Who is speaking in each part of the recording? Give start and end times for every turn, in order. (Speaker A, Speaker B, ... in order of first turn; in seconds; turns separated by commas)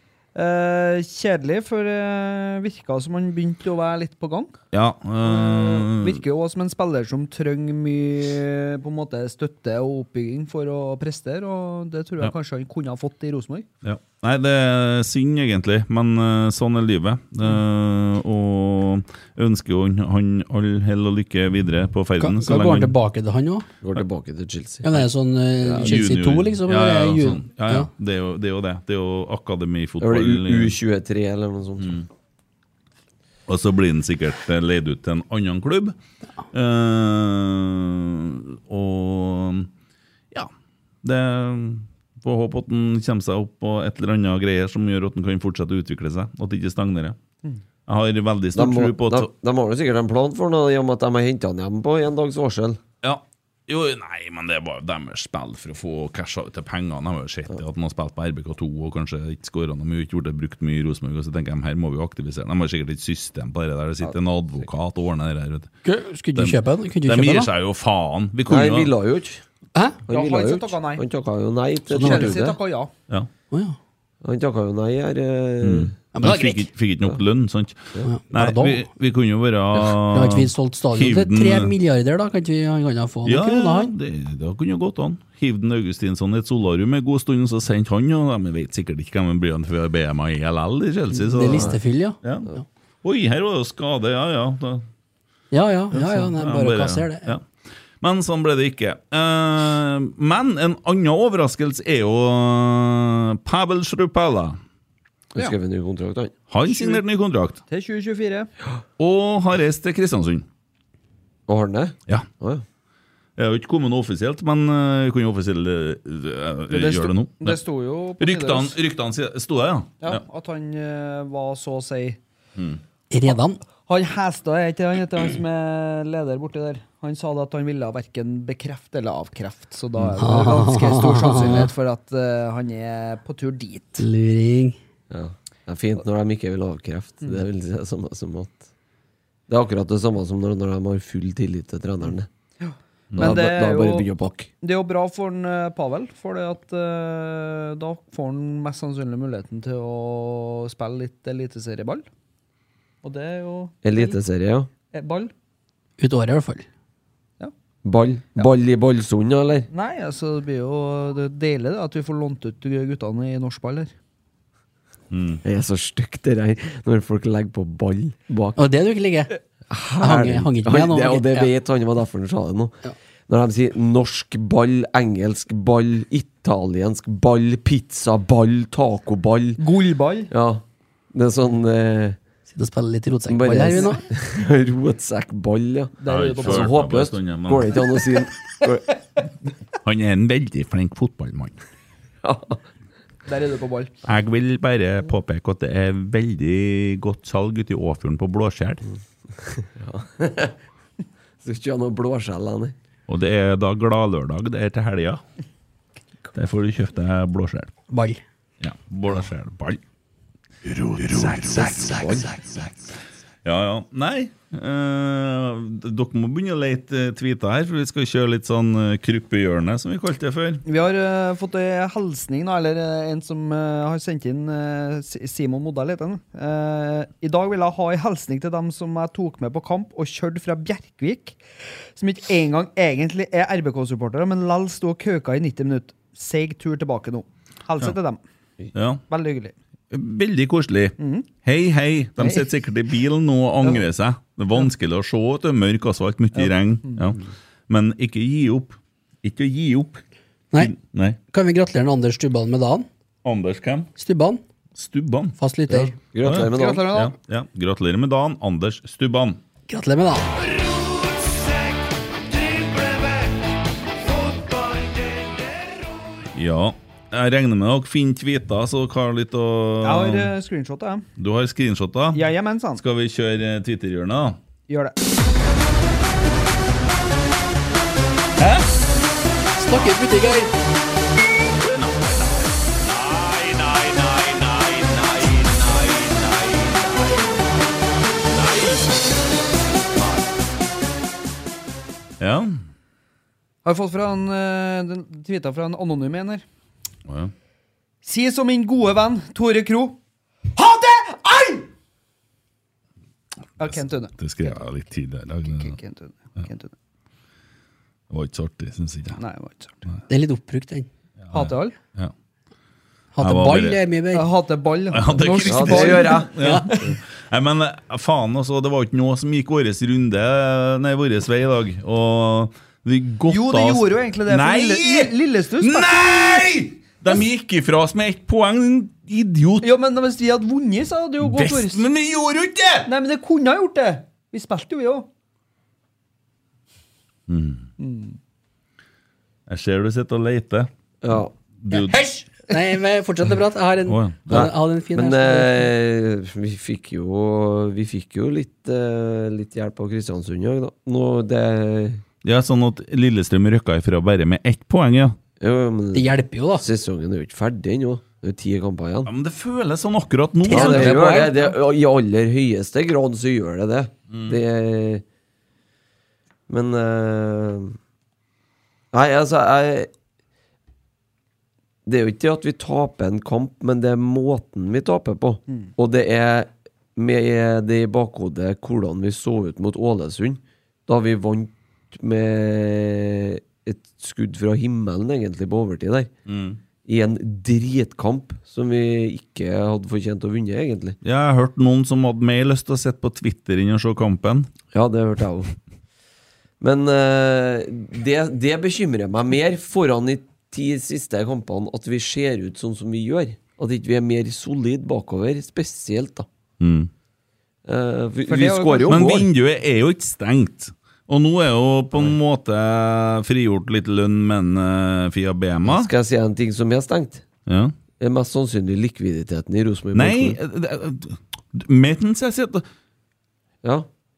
Speaker A: 0.3-4.5, Speaker B: 4.7-6.2, Speaker A: 5.2-13.7, Speaker B: 13.8-22.9, Speaker C: 22.2-23.7, Speaker D: 23.8-24.9, Speaker C: 24.8-27.9, Speaker D: 25.6-26.0, Speaker B: 25.8-30.7, Speaker D: 30.0-32.0, Speaker B: 33.5-36.0, Speaker B: 36.5-39.7, Speaker B: 41.0-47.2, Speaker B: 47.9-49.3, Speaker D: 48.5-52.8, Speaker B: 53.0-65.7, Speaker C: 65.8-67.5, Speaker B: 66.3-68.9, Speaker D: 68.5-69.4, Speaker C: 69.7-70.0, Speaker D: 70.0-72.6, Speaker A: 70.1-71.0, Speaker A: 71.9-72.9, Speaker C: 71.9-72.5, Speaker C: 73.5-73.8, Speaker D: 74.2-75.9, Speaker B: 75.6-81.7, Speaker C: 76.1-76.7, Speaker C: 78.0-78.8, Speaker C: 80.1-83.9, Speaker B: 83.2-92.5, Speaker C: 91.2-92.6, Speaker D: 91.5-91.8, Speaker B: 93.0-94.8, Speaker C: 95.5-97.3, Speaker B: 95.9-97.5, Speaker B: 98.0-104.6, Speaker D: 105.3-106.3, Speaker B: 106.5-107.6, Speaker A: 106.7-107.0, Speaker A: 107.7-108.5, Speaker B: 109.0-110.4, Speaker D: 111.5-112.6, Speaker B: 113.4-117.6, Speaker A: 116.7-118.8, Speaker B: 118.2-120.2, Speaker A: 120.0-122.2, Speaker C: 123.1-123.6, Speaker A: 123.9-134.0, Speaker C: 130.2-131.7, Speaker C: 134.0-134.8, Speaker D: 135.1-138.7, Speaker D: 139.5-142.3, Speaker A: 142.6-144.1, Speaker B: 143.1-143.4, Speaker D: 143.2-144.5, Speaker A: 144.6-152.1, Speaker A: 153.0-154.1, Speaker D: 153.8-154.7, Speaker A: 154.9-155.3, Speaker C: 156.0-156.6, Speaker D: 157.8-159.7, Speaker A: 159.7-163.9, Speaker B: 165.1-165.4, Speaker D: 165.4-168.6, Speaker C: 168.6-169.3, Speaker D: 169.7-172.8, Speaker C: 170.0-171.5, Speaker D: 173.3-179.6, Speaker A: 179.6-180.3, Speaker D: 180.3-182.2, Speaker C: 182.5-184.0, Speaker D: 183.3-188.9, Speaker A: 186.0-186.8, Speaker B: 186.1-187.8, Speaker B: 189.8-191.6, Speaker D: 192.2-192.6, Speaker A: 193.2-193.9, Speaker B: 194.0-198.8, Speaker D: 199.4-200.6, Speaker D: 201.4-202.7, Speaker B: 203.1-205.2, Speaker B: 206.3-207.7, Speaker C: 207.9-208.2, Speaker B: 208.6-209.8, Speaker B: 210.7-212.6, Speaker D: 211.1-212.3, Speaker B: 213.4-220.6, Speaker A: 220.7-231.4, Speaker A: 231.9-238.2, Speaker B: 238.7-239.0, Speaker A: 239.1-239.5, Speaker B: 239.9-250.0, Speaker A: 241.0-241.3, Speaker A: 242.2-242.5, Speaker A: 246.3-247.1, Speaker B: 250.6-251.2, Speaker C: 251.3-252.9, Speaker B: 253.2-253.9, Speaker C: 253.9-254.4, Speaker B: 254.8-255.3, Speaker C: 255.4-255.9, Speaker D: 255.7-256.9, Speaker B: 256.2-259.4, Speaker A: 256.4-257.1, Speaker C: 259.7-260.4, Speaker A: 262.4-263.1, Speaker A: 264.1-265.8, Speaker B: 266.3-270.3, Speaker A: 269.8-271.0, Speaker B: 271.2-274.4, Speaker A: 272.1-272.8, Speaker A: 274.7-274.9, Speaker B: 278.4-278.6, Speaker C: 279.6-280.5, Speaker B: 281.6-287.4, Speaker B: 288.3-289.1, Speaker B: 292.2-292.6, Speaker A: 293.6-296.4, Speaker B: 297.1-297.3, Speaker A: 298.0-300.0, Speaker A: 300.5-301.6, Speaker A: 303.6-304.6, Speaker B: 303.6-305.7, Speaker A: 305.4-306.7, Speaker B: 308.1-309.2, Speaker A: 309.2-309.8, Speaker C: 310.1-310.9, Speaker B: 311.2-312.1, Speaker A: 311.3-311.8, Speaker C: 313.1-314.3, Speaker B: 313.2-313.8, Speaker A: 314.1-316.3, Speaker B: 314.9-329.7, Speaker D: 315.4-316.9, Speaker C: 316.3-316.8, Speaker A: 323.3-325.9, Speaker A: 329.6-331.8, Speaker B: 331.2-332.9, Speaker A: 332.9-335.1, Speaker B: 337.3-337.7, Speaker A: 337.8-338.2, Speaker B: 339.5-340.7, Speaker D: 341.0-341.3, Speaker B: 341.6-342.0, Speaker C: 341.7-345.7, Speaker B: 343.9-344.5, Speaker D: 344.3-352.0, Speaker B: 352.2-355.2, Speaker D: 355.4-359.1, Speaker C: 355.9-356.6, Speaker B: 359.1-361.1, Speaker C: 360.5-361.5, Speaker D: 360.5-365.0, Speaker B: 364.1-364.4, Speaker D: 366.5-367.8, Speaker D: 368.9-369.9, Speaker D: 371.9-386.1, Speaker B: 386.3-386.6, Speaker D: 386.8-391.0, Speaker B: 391.0-394.5, Speaker D: 394.7-395.5, Speaker D: 396.6-406.3, Speaker B: 406.6-406.9, Speaker D: 407.6-409.3, Speaker A: 408.3-409.2, Speaker B: 408.9-415.9, Speaker D: 415.6-417.2, Speaker B: 417.5-417.7, Speaker D: 418.0-420.4, Speaker B: 419.9-422.6, Speaker D: 423.6-423.9